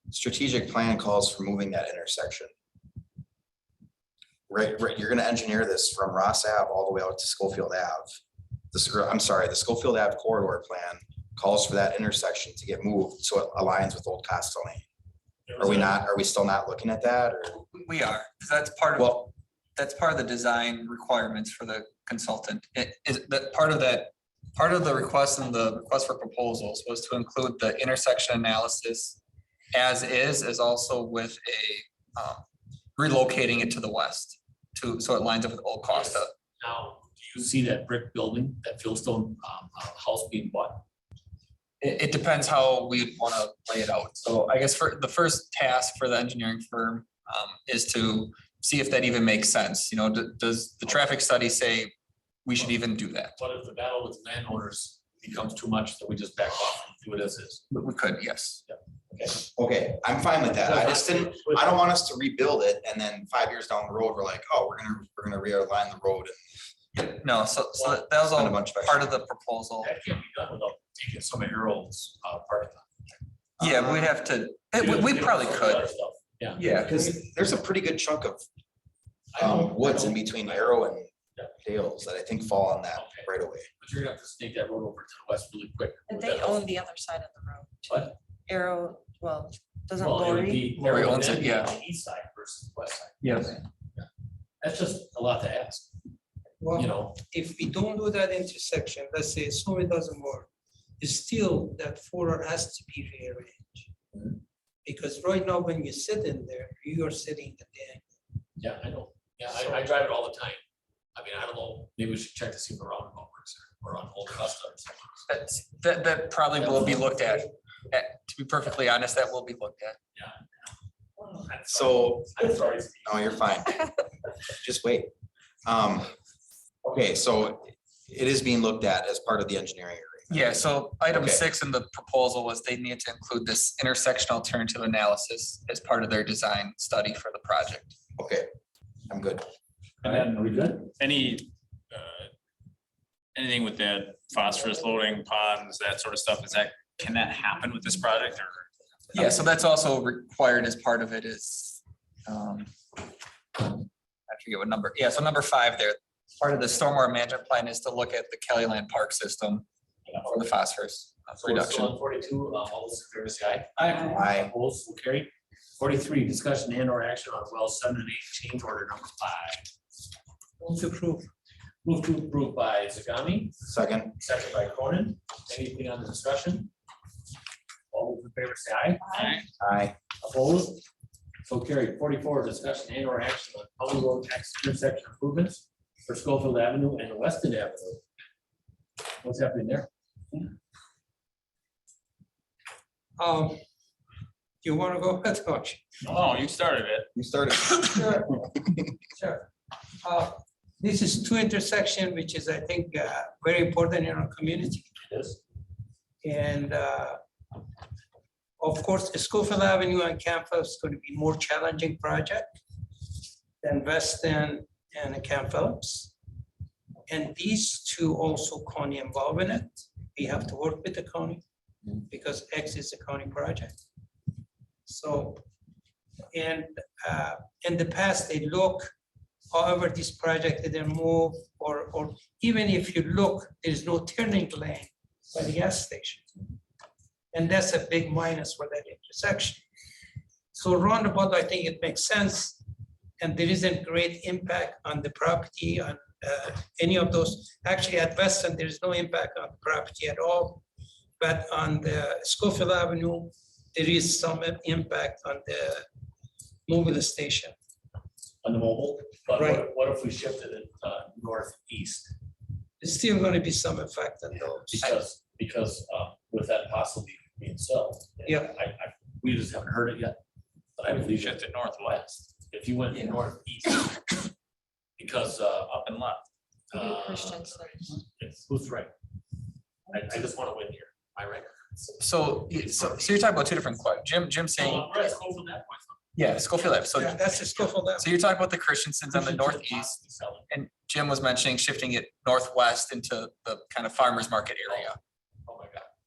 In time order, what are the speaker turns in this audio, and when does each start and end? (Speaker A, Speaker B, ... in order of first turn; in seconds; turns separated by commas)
Speaker A: 0.1-2.5, Speaker A: 4.5-8.1, Speaker A: 8.7-14.8, Speaker B: 15.5-16.0, Speaker A: 15.6-17.6, Speaker C: 17.5-29.2, Speaker A: 19.0-19.3, Speaker C: 29.7-32.4, Speaker C: 33.0-36.3, Speaker B: 35.9-40.8, Speaker C: 41.8-51.9, Speaker C: 52.5-53.3, Speaker B: 53.4-57.6, Speaker C: 57.7-58.6, Speaker B: 58.7-59.4, Speaker A: 59.6-66.4, Speaker B: 60.5-61.9, Speaker C: 66.9-69.9, Speaker B: 67.7-68.1, Speaker A: 68.3-69.1, Speaker B: 69.8-72.9, Speaker A: 73.6-74.1, Speaker C: 73.6-75.9, Speaker B: 74.8-76.6, Speaker A: 76.6-78.4, Speaker C: 76.6-76.9, Speaker B: 79.3-80.8, Speaker A: 79.4-83.7, Speaker B: 83.0-83.3, Speaker B: 83.8-86.7, Speaker D: 86.1-90.9, Speaker B: 87.9-88.2, Speaker B: 90.0-94.1, Speaker C: 90.8-91.7, Speaker C: 93.2-93.6, Speaker B: 94.6-96.0, Speaker E: 96.6-100.5, Speaker B: 96.8-97.2, Speaker E: 101.0-103.9, Speaker E: 104.8-108.0, Speaker B: 108.6-110.6, Speaker B: 111.2-115.3, Speaker C: 115.3-120.0, Speaker B: 116.6-117.1, Speaker B: 120.2-120.5, Speaker B: 121.3-123.4, Speaker A: 121.7-123.9, Speaker A: 124.6-125.1, Speaker A: 125.7-126.1, Speaker A: 126.8-130.5, Speaker C: 130.3-137.9, Speaker A: 131.1-131.4, Speaker A: 138.2-138.5, Speaker A: 139.1-139.5, Speaker B: 140.0-140.9, Speaker F: 140.9-142.3, Speaker F: 143.3-148.7, Speaker C: 149.1-152.7, Speaker C: 153.6-159.7, Speaker B: 160.1-160.4, Speaker C: 160.2-161.9, Speaker B: 161.3-169.7, Speaker A: 164.1-164.5, Speaker E: 170.6-171.3, Speaker B: 171.8-173.6, Speaker A: 173.7-174.2, Speaker B: 174.2-176.7, Speaker B: 177.9-179.1, Speaker D: 179.0-179.3, Speaker F: 179.2-179.4, Speaker A: 179.6-180.0, Speaker B: 180.2-180.8, Speaker B: 181.4-188.0, Speaker B: 189.2-189.9, Speaker E: 193.2-193.6, Speaker E: 194.6-195.9, Speaker F: 196.1-197.1, Speaker A: 197.2-198.5, Speaker E: 197.9-198.4, Speaker E: 199.2-199.5, Speaker E: 200.0-204.9, Speaker B: 205.0-205.4, Speaker E: 206.2-207.2, Speaker E: 208.6-212.6, Speaker E: 213.6-216.1, Speaker E: 217.1-221.4, Speaker E: 222.1-223.8, Speaker E: 224.9-225.4, Speaker E: 226.3-228.9, Speaker E: 229.5-236.3, Speaker E: 237.3-239.6, Speaker E: 240.5-242.6, Speaker E: 243.2-250.6, Speaker E: 251.2-255.9, Speaker E: 256.7-257.5, Speaker B: 258.4-262.1, Speaker E: 259.4-259.6, Speaker E: 262.8-264.8, Speaker B: 264.7-270.2, Speaker E: 268.3-268.5, Speaker B: 270.8-274.3, Speaker F: 270.9-272.1, Speaker B: 275.0-275.7, Speaker F: 275.7-276.2, Speaker B: 276.7-278.9, Speaker D: 276.7-277.9, Speaker B: 279.9-282.0, Speaker C: 282.0-284.9, Speaker B: 282.6-283.2, Speaker B: 284.6-286.0, Speaker C: 286.1-290.0, Speaker E: 286.9-288.1, Speaker B: 289.1-290.5, Speaker C: 290.5-295.0, Speaker B: 294.7-295.0, Speaker B: 295.5-295.9